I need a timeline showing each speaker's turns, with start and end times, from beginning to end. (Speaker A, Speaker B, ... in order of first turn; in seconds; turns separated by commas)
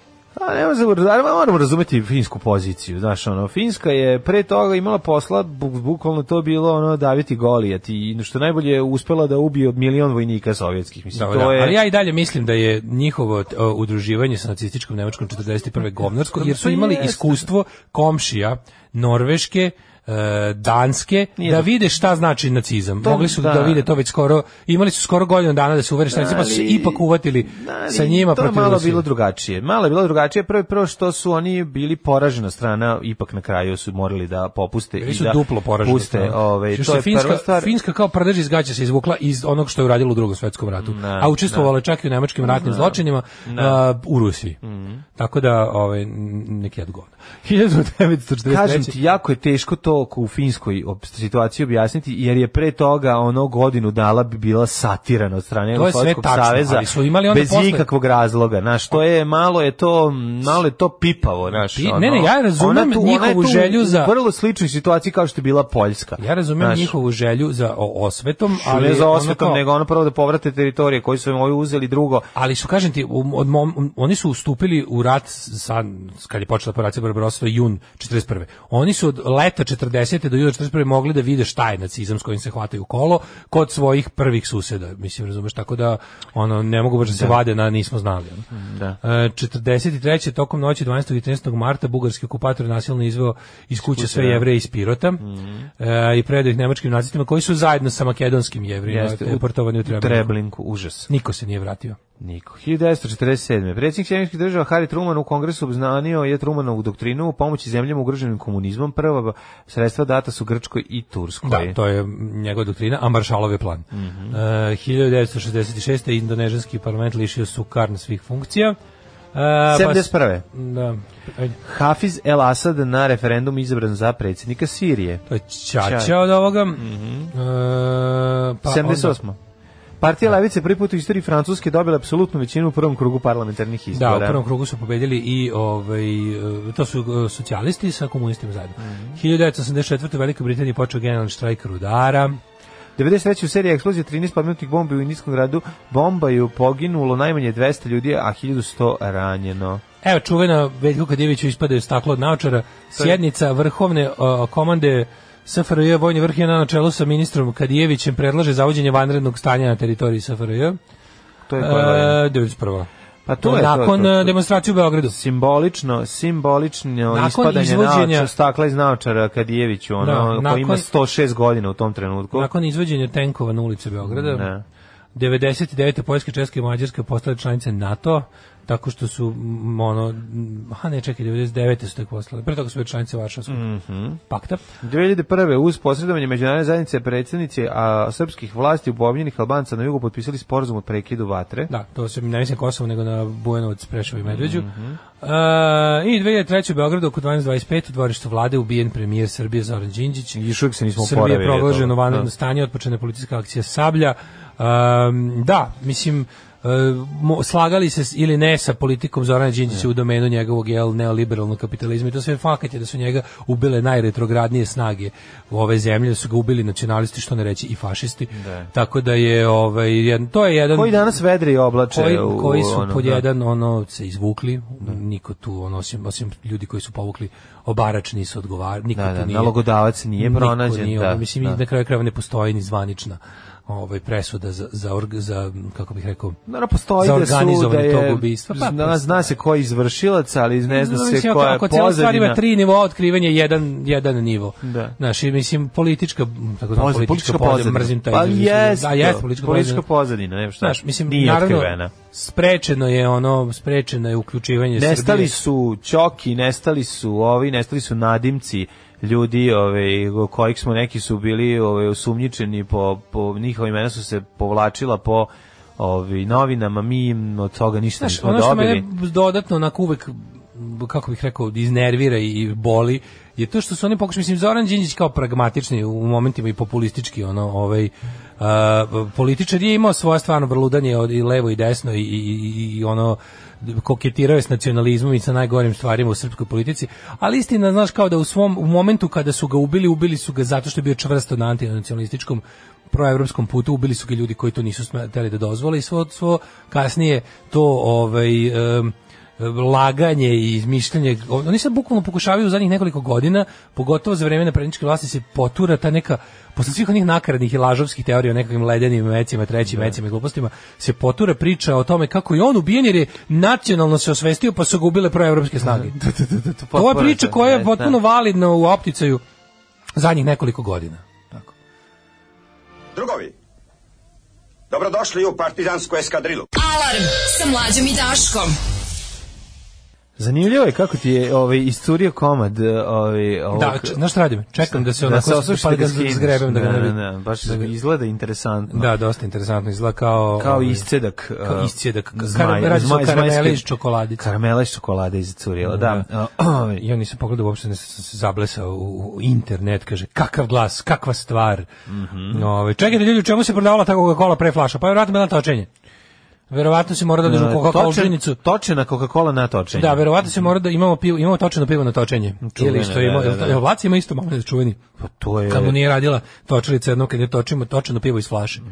Speaker A: 0.3-11.8, Speaker B: 11.1-29.0, Speaker A: 16.3-17.4, Speaker A: 21.4-21.7, Speaker A: 23.0-23.9, Speaker A: 26.1-37.7, Speaker B: 35.0-44.6, Speaker A: 40.8-41.7, Speaker A: 42.4-43.8, Speaker A: 44.6-45.0, Speaker B: 45.2-48.9, Speaker A: 48.5-66.9, Speaker B: 55.7-57.9, Speaker B: 61.7-64.1, Speaker B: 66.2-69.6, Speaker A: 68.5-72.3, Speaker B: 72.3-88.5, Speaker A: 87.1-87.4, Speaker A: 88.5-89.0, Speaker B: 89.0-95.2, Speaker A: 93.8-94.5, Speaker A: 95.2-95.7, Speaker B: 95.8-100.3, Speaker A: 98.9-101.1, Speaker B: 101.1-102.0, Speaker A: 102.2-111.8, Speaker B: 111.4-118.8, Speaker A: 113.9-114.4, Speaker B: 119.3-121.6, Speaker A: 119.7-120.5, Speaker A: 121.6-125.2, Speaker B: 125.3-129.2, Speaker A: 125.8-126.2, Speaker A: 126.8-127.3, Speaker A: 128.6-129.4, Speaker A: 130.0-134.4, Speaker B: 133.9-142.4, Speaker A: 138.8-139.2, Speaker A: 143.0-149.8, Speaker B: 150.0-160.8, Speaker A: 161.5-162.2, Speaker B: 161.6-162.9, Speaker A: 163.2-164.3, Speaker B: 163.4-165.1, Speaker A: 165.1-172.5, Speaker B: 167.1-168.3, Speaker B: 170.0-170.8, Speaker B: 172.3-174.5, Speaker A: 174.0-174.6, Speaker B: 175.1-183.6, Speaker A: 183.5-184.2, Speaker B: 184.3-184.6, Speaker A: 184.8-191.7, Speaker B: 191.7-194.7, Speaker A: 194.2-195.0, Speaker B: 195.2-200.3, Speaker A: 200.3-202.3, Speaker B: 201.0-221.2, Speaker A: 218.3-218.7, Speaker A: 220.7-223.2, Speaker B: 221.9-229.5, Speaker A: 228.9-231.6, Speaker B: 230.2-236.4, Speaker A: 236.5-242.4, Speaker B: 237.0-239.3, Speaker B: 240.7-249.8, Speaker A: 244.6-244.9, Speaker A: 246.7-251.9, Speaker B: 250.6-255.3, Speaker A: 254.8-268.8, Speaker B: 268.0-315.9, Speaker A: 309.7-309.9, Speaker A: 315.7-318.0, Speaker B: 316.7-319.2, Speaker B: 319.9-321.0, Speaker C: 322.9-323.3, Speaker C: 324.7-326.5, Speaker D: 326.5-328.6, Speaker A: 330.2-334.0, Speaker B: 333.5-337.7, Speaker A: 334.6-338.9, Speaker B: 338.7-340.9, Speaker A: 340.4-343.6, Speaker B: 341.4-344.2, Speaker A: 344.2-346.8, Speaker B: 345.6-346.1, Speaker B: 346.8-351.7, Speaker A: 351.9-352.5, Speaker B: 352.3-355.7, Speaker B: 356.5-358.4, Speaker A: 357.2-360.5, Speaker B: 359.7-364.8, Speaker A: 362.4-363.6, Speaker A: 365.0-365.8, Speaker B: 365.5-368.6